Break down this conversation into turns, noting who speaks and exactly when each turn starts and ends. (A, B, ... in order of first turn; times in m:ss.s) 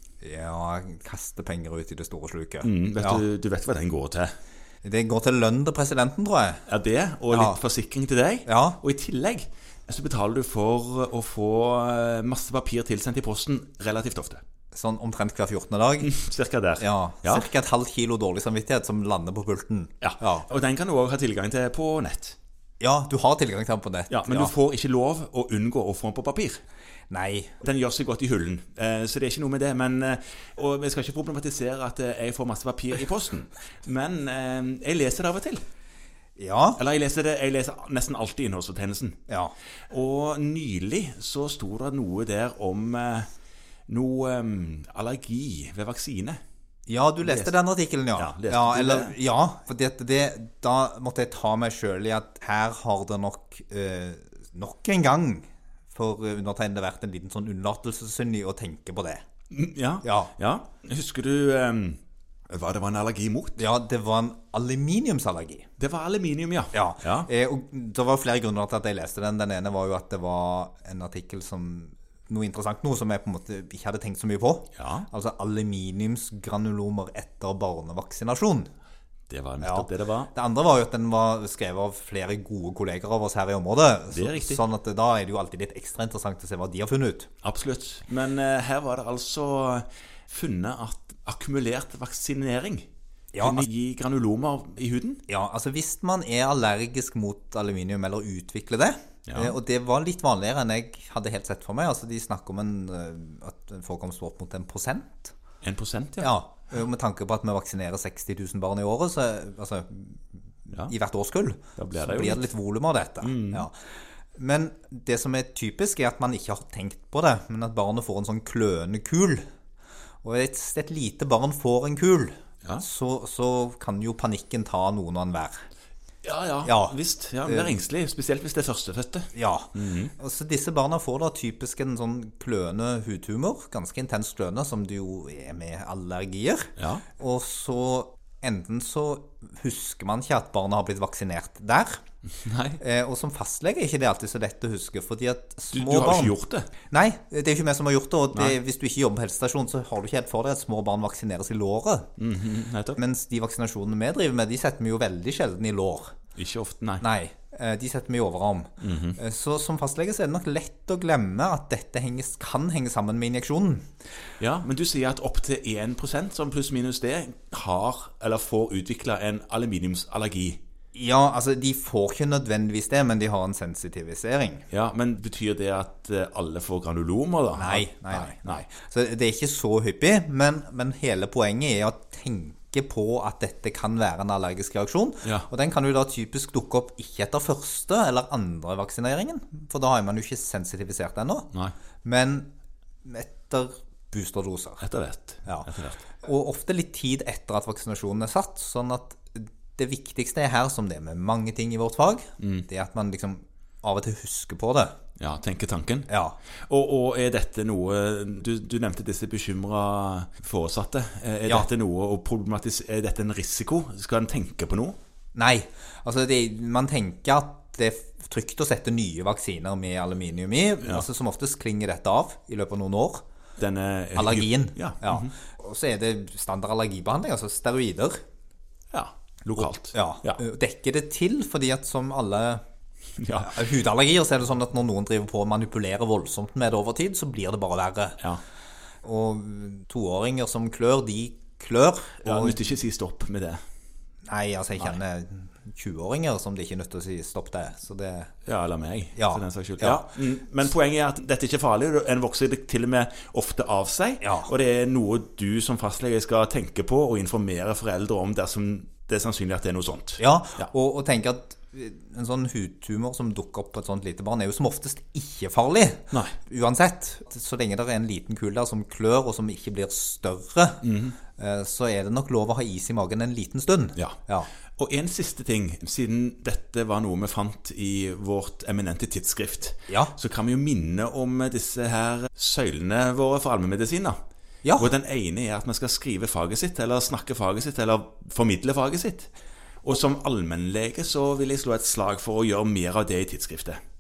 0:00.2-0:03.2 A
0:02.6-0:04.4 B
0:04.8-0:06.6 A
0:06.7-0:14.4 B
0:07.3-0:07.6 A
0:08.5-0:08.8 A
0:14.7-0:16.1 A
0:16.0-0:17.5 B
0:16.8-0:20.5 A
0:20.0-0:22.4 B
0:22.8-0:24.5 A
0:24.1-0:26.6 B
0:27.1-0:27.6 A
0:27.6-0:35.6 B
0:36.4-0:36.8 A
0:36.8-0:39.2 B
0:39.3-0:39.5 A
0:39.9-0:43.3 B
0:43.9-0:46.4 B
0:46.9-0:59.2 A
0:47.2-0:47.6 B
0:48.2-0:49.2 B
0:59.5-1:03.6 B
1:00.0-1:00.3 A
1:03.6-1:05.7 A
1:05.8-1:07.3 B
1:06.7-1:18.7 A
1:14.8-1:15.1 B
1:19.3-1:20.3 B
1:19.6-1:27.3 A
1:24.1-1:24.6 B
1:27.4-1:32.9 B
1:33.3-1:33.6 A
1:33.4-1:35.2 B
1:35.3-1:45.3 A
1:39.3-1:39.6 B
1:45.6-1:46.3 B
1:46.2-1:53.7 A
1:51.8-1:52.5 B
1:53.2-1:53.7 B
1:54.4-1:59.4 A
2:00.2-2:05.6 A
2:06.2-2:10.1 B
2:06.6-2:07.7 A
2:09.3-2:22.0 A
2:16.8-2:17.0 B
2:22.4-2:22.8 B
2:22.8-2:26.4 A
2:25.7-2:26.7 B
2:26.9-2:32.1 A
2:32.2-2:33.0 B
2:33.0-2:36.1 A
2:36.4-2:37.0 B
2:37.0-2:43.9 A
2:38.8-2:39.2 B
2:44.4-2:50.6 B
2:50.9-2:54.7 A
2:54.7-2:58.6 B
2:57.6-3:11.5 A
3:12.0-3:12.5 A
3:13.0-3:14.8 A
3:14.8-3:16.0 B
3:15.4-3:25.0 A
3:22.4-3:22.7 B
3:25.2-3:26.1 B
3:26.1-3:26.4 A
3:26.7-3:35.0 B
3:35.4-3:43.2 A
3:43.6-3:45.3 B
3:44.2-3:48.2 A
3:48.9-3:50.4 B
3:49.9-3:52.6 A
3:53.2-3:53.6 B
3:53.3-3:58.2 A
3:59.0-4:02.6 A
4:02.2-4:03.6 B
4:04.3-4:08.3 A
4:08.5-4:20.7 B
4:09.2-4:10.1 A
4:14.2-4:14.5 A
4:20.2-4:34.5 A
4:30.8-4:31.2 B
4:34.8-4:44.2 B
4:39.9-4:40.1 A
4:44.6-4:44.9 A
4:44.8-4:49.3 B
4:49.8-4:53.8 B